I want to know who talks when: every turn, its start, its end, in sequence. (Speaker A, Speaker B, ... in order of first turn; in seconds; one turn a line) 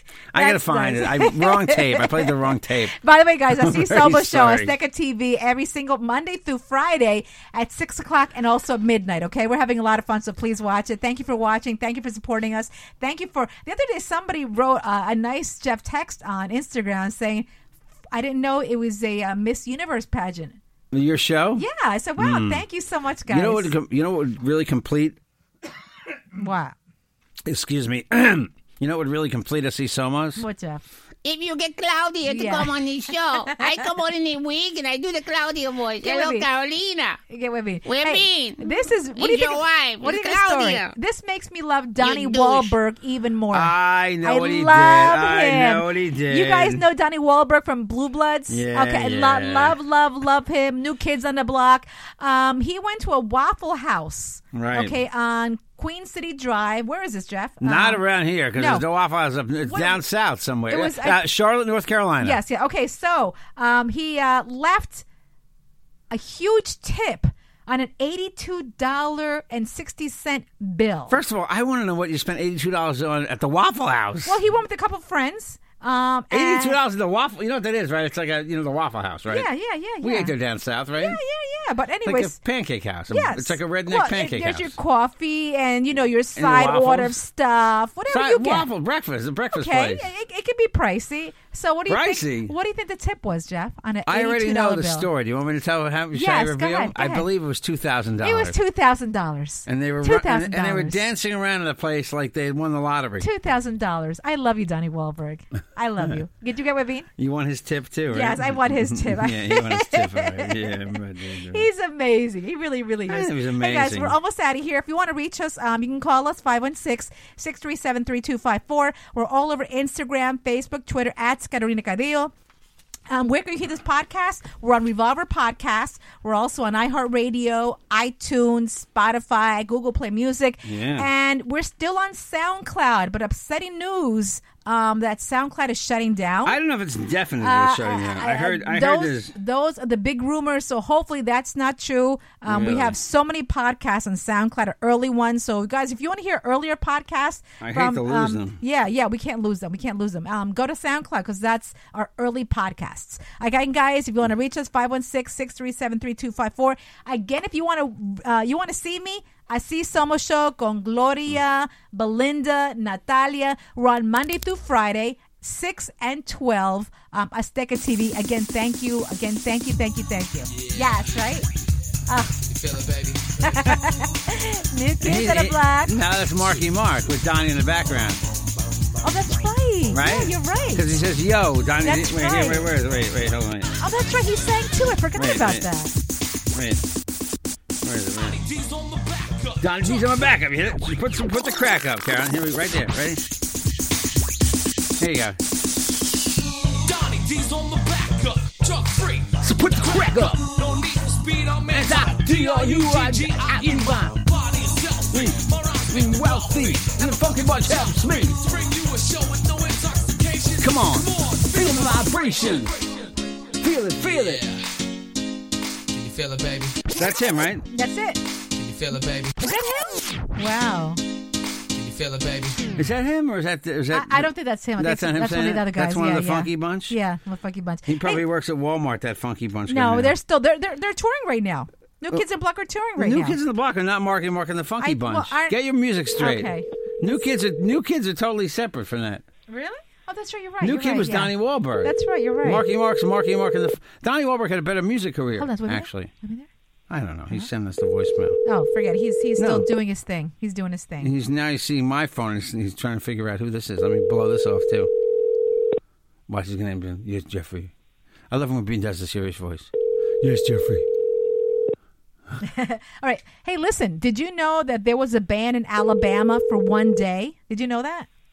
Speaker A: 0.3-3.0
Speaker B: 0.3-2.3
Speaker B: 3.0-17.5
Speaker A: 3.5-4.8
Speaker B: 18.1-20.6
Speaker A: 20.9-21.6
Speaker B: 21.6-23.7
Speaker A: 22.2-22.7
Speaker A: 23.3-25.2
Speaker B: 26.4-26.8
Speaker A: 27.5-30.4
Speaker B: 30.4-30.8
Speaker C: 31.2-37.2
Speaker B: 32.2-32.7
Speaker B: 36.0-36.5
Speaker B: 37.3-58.0
Speaker C: 37.9-40.9
Speaker C: 42.0-42.7
Speaker A: 43.5-46.8
Speaker A: 48.5-49.8
Speaker A: 54.5-55.0
Speaker A: 57.6-62.4
Speaker B: 58.5-58.8
Speaker B: 59.6-60.0
Speaker B: 60.7-61.2
Speaker B: 62.2-65.0
Speaker B: 66.1-71.2
Speaker A: 71.1-74.4
Speaker B: 74.2-76.8
Speaker A: 76.3-79.5
Speaker B: 79.3-80.3
Speaker A: 80.0-81.2
Speaker B: 81.0-82.4
Speaker A: 82.0-84.8
Speaker B: 83.1-88.7
Speaker A: 86.4-87.2
Speaker A: 88.1-90.1
Speaker B: 89.5-95.1
Speaker A: 91.9-92.5
Speaker A: 94.1-98.6
Speaker B: 96.1-97.3
Speaker B: 98.2-101.0
Speaker A: 99.7-103.3
Speaker B: 103.2-107.1
Speaker A: 107.2-111.7
Speaker B: 108.1-111.0
Speaker B: 111.5-122.3
Speaker A: 113.1-114.2
Speaker B: 123.1-136.6
Speaker A: 130.7-131.1
Speaker A: 136.4-139.3
Speaker B: 137.4-171.5
Speaker A: 142.4-143.0
Speaker A: 147.6-148.6
Speaker D: 170.5-171.2
Speaker B: 172.1-172.4
Speaker D: 172.4-173.6
Speaker B: 173.4-175.9
Speaker A: 175.0-178.2
Speaker B: 179.0-180.9
Speaker A: 179.9-183.7
Speaker B: 181.8-182.7
Speaker B: 183.8-185.9
Speaker A: 185.2-185.7
Speaker A: 186.5-186.8
Speaker A: 187.8-188.4
Speaker D: 188.2-190.2
Speaker A: 189.6-193.2
Speaker A: 195.0-195.4
Speaker D: 196.8-213.1
Speaker A: 199.4-200.6
Speaker A: 201.7-204.2
Speaker A: 205.1-208.4
Speaker A: 210.6-212.7
Speaker A: 213.6-214.4
Speaker D: 214.0-214.6
Speaker D: 215.9-216.8
Speaker A: 216.9-217.7
Speaker B: 217.7-218.2
Speaker D: 218.6-219.4
Speaker B: 219.4-221.0
Speaker D: 221.7-222.8
Speaker A: 222.8-227.0
Speaker B: 223.9-228.2
Speaker A: 227.9-230.2
Speaker B: 229.7-233.4
Speaker A: 233.0-239.2
Speaker B: 234.8-235.6
Speaker B: 236.2-237.2
Speaker B: 239.5-242.6
Speaker A: 240.6-246.1
Speaker B: 245.4-246.5
Speaker A: 246.9-248.4
Speaker B: 248.4-251.1
Speaker A: 249.4-249.7
Speaker A: 251.0-254.9
Speaker A: 256.3-257.7
Speaker A: 258.3-260.9
Speaker B: 262.4-268.1